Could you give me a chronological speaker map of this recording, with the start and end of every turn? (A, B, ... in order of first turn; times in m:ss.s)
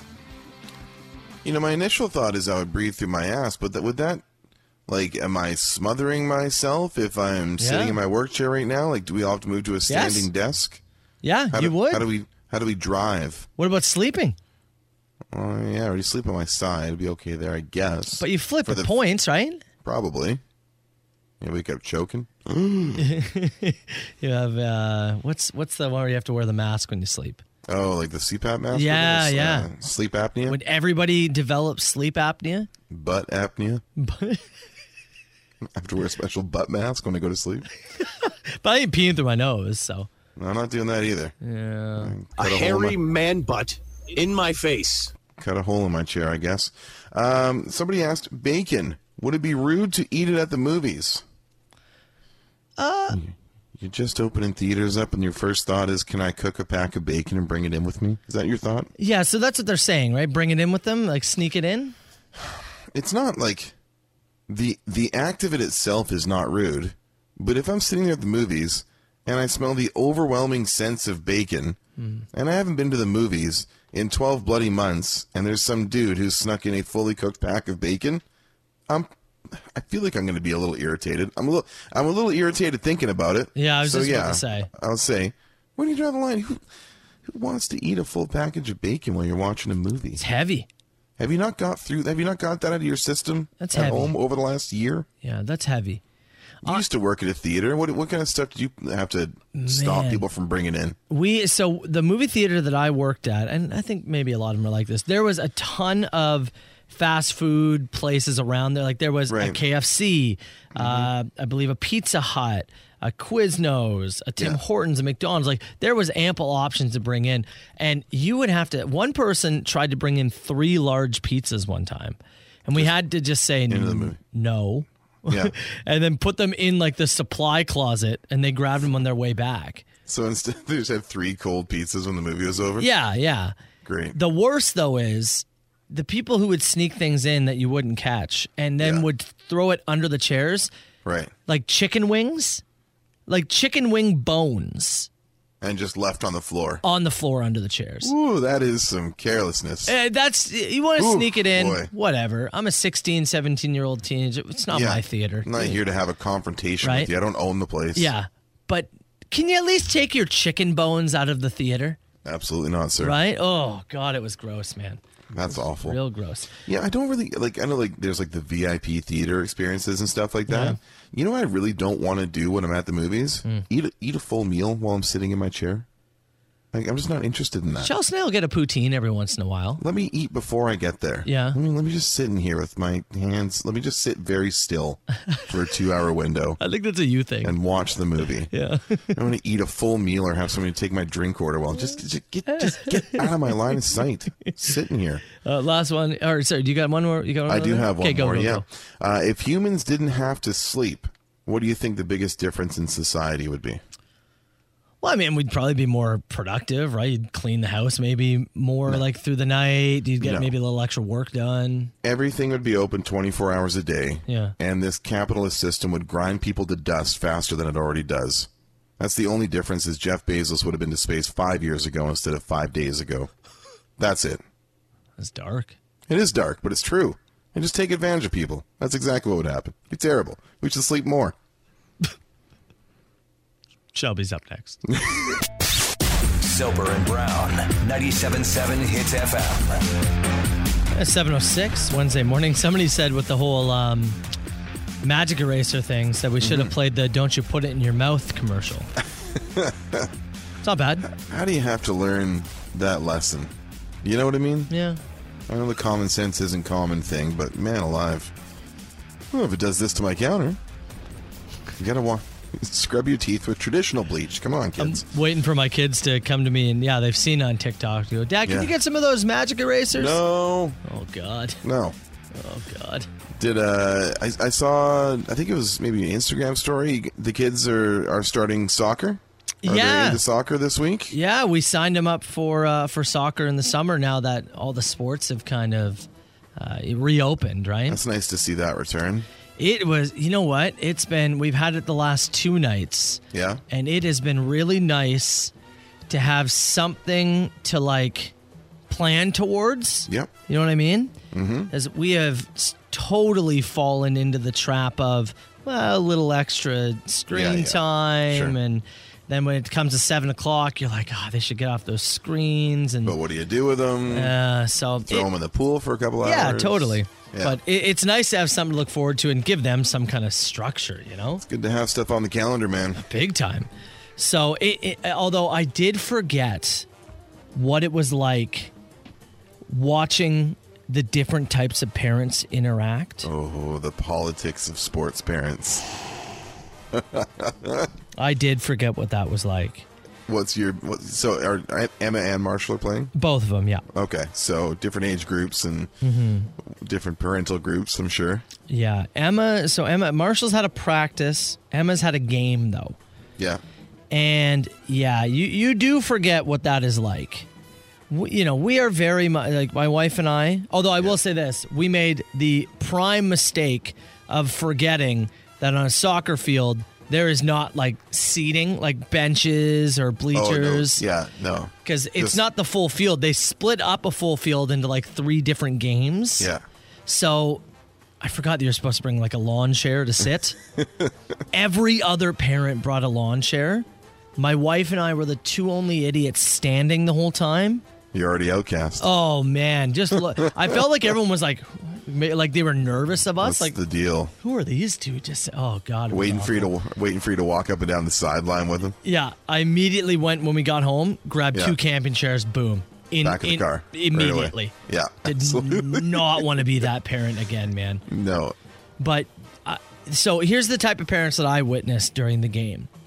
0:01.4-0:04.2 A
0:04.9-0:10.8 A
0:07.6-0:08.0 B
0:09.9-0:10.3 B
0:11.2-0:12.1 B
0:11.5-0:13.5 A
0:13.6-0:14.4 B
0:15.3-0:18.9 A
0:18.2-0:19.6 B
0:19.8-0:20.4 A
0:21.4-0:23.1 A
0:23.0-0:27.4 B
0:27.7-0:30.6 A
0:28.7-0:29.7 B
0:30.5-0:32.7 B
0:32.9-0:33.8 A
0:34.0-0:34.4 B
0:35.7-0:37.7 A
0:38.0-0:40.1 B
0:40.4-0:41.4 A
0:41.4-0:42.2 B
0:42.0-0:43.0 A
0:42.4-0:45.1 C
0:45.4-0:51.2 A
0:52.8-0:53.2 B
0:53.1-0:58.9 A
0:59.0-1:02.0 B
1:02.4-1:03.8 A
1:04.5-1:11.8 A
1:12.0-1:12.3 B
1:12.3-1:18.2 A
1:18.9-1:26.6 A
1:23.6-1:24.7 B
1:27.2-1:30.2 A
1:30.2-1:30.7 B
1:31.2-1:35.1 A
1:33.6-1:34.1 B
1:35.2-1:36.0 B
1:36.6-1:41.0 A
1:39.5-1:40.2 B
1:41.1-2:09.9 B
1:49.3-1:49.6 A
1:50.8-1:51.1 A
2:03.7-2:04.2 A
2:05.3-2:05.5 A
2:10.1-2:12.9 A
2:12.8-2:13.6 B
2:13.8-2:14.2 A
2:14.1-2:20.7 B
2:18.8-2:19.1 A
2:21.0-2:21.3 A
2:21.5-2:22.6 B
2:23.3-2:25.1 B
2:25.6-2:26.8 A
2:26.8-2:28.1 B
2:28.0-2:30.0 A
2:29.9-2:35.8 B
2:31.0-2:31.9 A
2:34.7-2:38.1 A
2:36.8-2:37.1 B
2:38.0-2:42.0 B
2:42.2-2:43.2 A
2:43.0-2:46.5 B
2:45.3-2:46.0 A
2:46.7-2:55.9 A
2:50.5-2:50.8 B
2:56.7-2:57.9 A
2:57.8-2:59.8 B
2:59.8-3:06.6 A
3:01.3-3:01.6 B
3:06.6-3:07.6 B
3:07.4-3:08.5 A
3:08.5-3:09.2 B
3:09.1-3:15.2 A
3:12.5-3:13.3 B
3:15.4-3:18.6 B
3:17.5-3:23.8 A
3:25.0-3:31.9 B
3:30.2-3:30.5 A
3:32.0-3:43.3 A
3:34.3-3:34.6 B
3:44.0-3:44.4 A
3:45.2-3:45.8 B
3:46.1-3:51.4 A
3:53.9-3:54.8 B
3:54.9-3:55.2 A
3:56.4-3:59.8 D
4:00.9-4:04.2 B
4:05.0-4:08.9 B
4:06.4-4:06.7 A
4:09.3-4:10.1 A
4:10.6-4:11.1 B
4:11.1-4:14.7 A
4:14.7-4:15.0 B
4:15.5-4:18.3 A
4:19.3-4:20.6 A
4:21.8-4:25.1 A
4:24.8-4:30.2 B
4:28.4-4:28.7 A
4:29.9-4:30.8 A
4:30.8-4:31.6 B
4:31.6-4:32.0 A
4:32.3-4:33.1 B
4:33.4-4:41.2 A
4:39.6-4:40.2 B
4:41.1-4:48.0 B
4:47.9-4:49.3 A
4:49.6-4:55.5 B
4:53.3-4:53.6 A
4:56.1-4:58.4 B
4:58.9-5:01.1 B
5:01.3-5:01.7 A
5:01.7-5:13.2 B
5:07.3-5:08.6 A
5:13.0-5:14.4 A
5:14.1-5:15.3 B
5:15.0-5:17.6 A
5:16.2-5:21.4 B
5:21.4-5:23.0 A
5:23.0-5:26.9 B
5:27.5-5:28.7 B
5:29.7-5:33.3 B
5:33.2-5:35.9 A
5:36.9-5:37.9 A
5:38.2-5:39.9 B
5:40.3-5:43.1 A
5:43.2-5:43.8 B
5:43.9-5:45.9 A
5:46.0-5:46.5 B
5:46.6-5:48.5 A
5:48.7-5:53.0 B
5:54.1-5:57.5 B
5:58.1-6:11.0 B
6:10.3-6:12.4 A
6:11.8-6:16.5 B
6:16.4-6:16.6 A
6:17.1-6:17.6 B
6:18.2-6:20.6 B
6:20.8-6:21.1 A
6:21.5-6:27.8 B
6:28.1-6:29.1 A
6:29.0-6:33.8 B
6:30.3-6:30.7 A
6:33.4-6:34.3 A
6:34.4-6:36.7 B
6:36.1-6:39.0 A
6:39.0-6:48.0 B
6:41.5-6:41.8 A
6:43.2-6:46.6 A
6:48.1-6:48.6 A
6:49.0-6:52.9 B